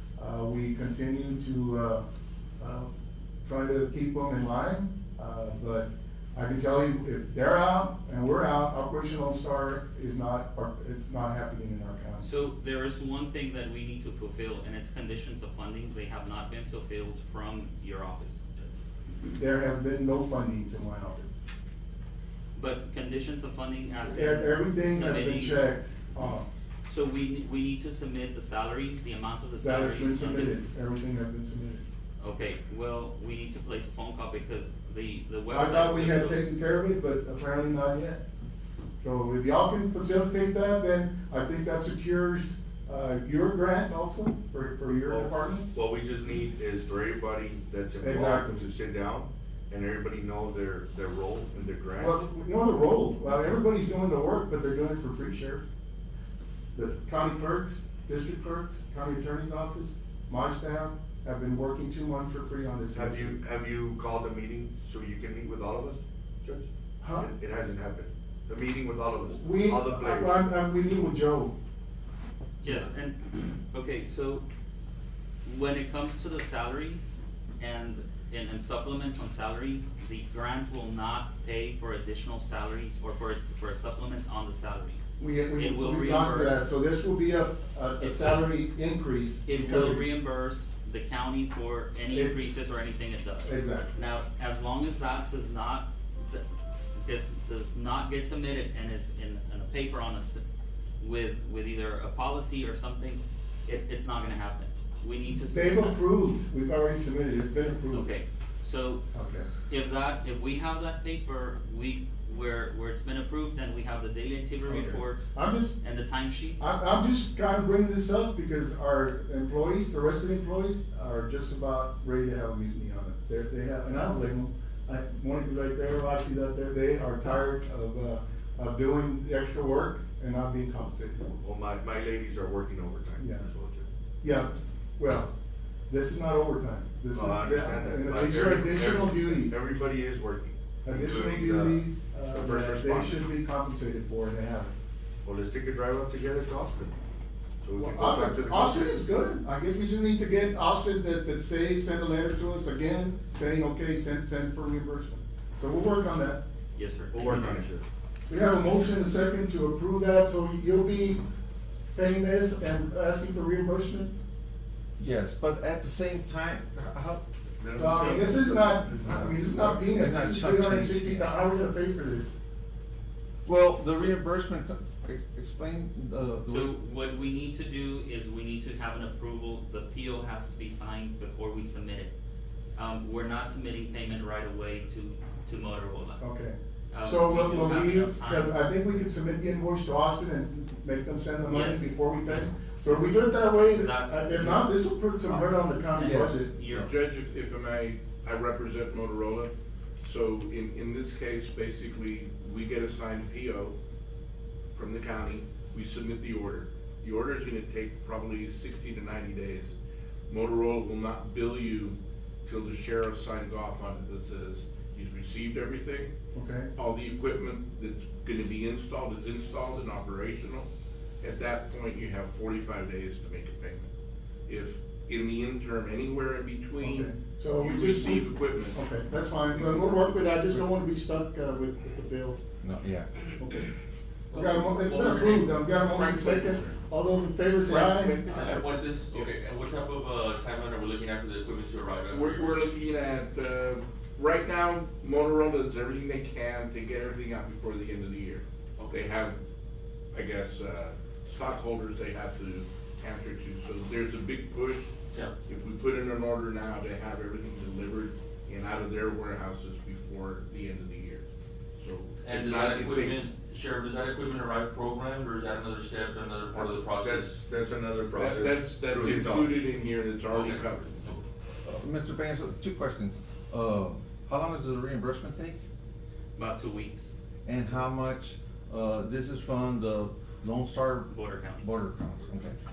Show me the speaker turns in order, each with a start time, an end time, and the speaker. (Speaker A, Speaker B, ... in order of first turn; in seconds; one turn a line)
Speaker A: 0.2-2.0
Speaker A: 2.6-2.9
Speaker A: 3.4-12.2
Speaker B: 12.2-18.7
Speaker A: 19.4-21.3
Speaker B: 22.6-25.7
Speaker A: 24.1-26.5
Speaker B: 26.9-30.6
Speaker A: 29.6-31.8
Speaker B: 32.2-36.5
Speaker A: 35.5-38.2
Speaker A: 39.0-45.7
Speaker C: 45.1-52.1
Speaker A: 48.0-48.6
Speaker A: 52.0-55.6
Speaker A: 56.7-63.4
Speaker C: 63.0-66.7
Speaker A: 67.0-67.3
Speaker C: 67.2-70.5
Speaker A: 69.3-71.5
Speaker B: 72.6-74.4
Speaker B: 75.4-85.0
Speaker A: 85.2-90.0
Speaker B: 85.5-86.6
Speaker B: 88.0-88.4
Speaker B: 89.5-100.4
Speaker A: 92.1-92.6
Speaker A: 93.4-93.9
Speaker B: 101.0-106.0
Speaker A: 105.5-108.1
Speaker B: 107.9-109.0
Speaker A: 109.1-109.5
Speaker B: 109.7-116.7
Speaker A: 114.7-115.8
Speaker A: 116.6-131.3
Speaker C: 131.4-133.9
Speaker A: 133.2-133.4
Speaker A: 134.2-135.3
Speaker A: 135.9-139.6
Speaker D: 137.2-137.7
Speaker C: 137.2-141.8
Speaker A: 140.8-144.7
Speaker C: 142.4-143.2
Speaker C: 145.2-147.0
Speaker C: 147.6-149.0
Speaker A: 147.8-156.4
Speaker B: 156.8-157.7
Speaker C: 157.1-157.8
Speaker A: 157.2-157.6
Speaker A: 158.3-161.2
Speaker A: 161.9-164.1
Speaker D: 165.0-165.7
Speaker D: 166.2-167.2
Speaker C: 167.6-169.3
Speaker A: 167.8-172.3
Speaker D: 167.8-171.3
Speaker B: 167.9-168.2
Speaker D: 173.4-176.7
Speaker B: 176.5-182.1
Speaker B: 182.8-186.2
Speaker A: 186.2-196.5
Speaker B: 186.9-188.5
Speaker B: 191.5-194.7
Speaker B: 195.9-196.9
Speaker D: 196.1-196.4
Speaker E: 196.7-203.8
Speaker E: 204.7-209.8
Speaker E: 210.3-216.1
Speaker A: 216.3-216.7
Speaker E: 216.8-220.7
Speaker E: 221.2-223.9
Speaker E: 224.5-228.8
Speaker A: 226.8-232.4
Speaker D: 232.6-233.1
Speaker A: 233.4-233.7
Speaker F: 234.3-235.6
Speaker A: 234.3-238.7
Speaker E: 235.2-236.8
Speaker E: 237.6-239.3
Speaker F: 237.8-242.7
Speaker E: 242.1-249.4
Speaker E: 250.1-254.9
Speaker E: 255.4-261.2
Speaker E: 261.8-263.3
Speaker F: 262.2-267.4
Speaker C: 266.5-269.6
Speaker E: 268.1-271.2
Speaker F: 270.3-271.2
Speaker D: 271.6-275.6
Speaker B: 276.4-277.1
Speaker D: 277.4-281.1
Speaker B: 281.1-281.9
Speaker D: 281.6-282.5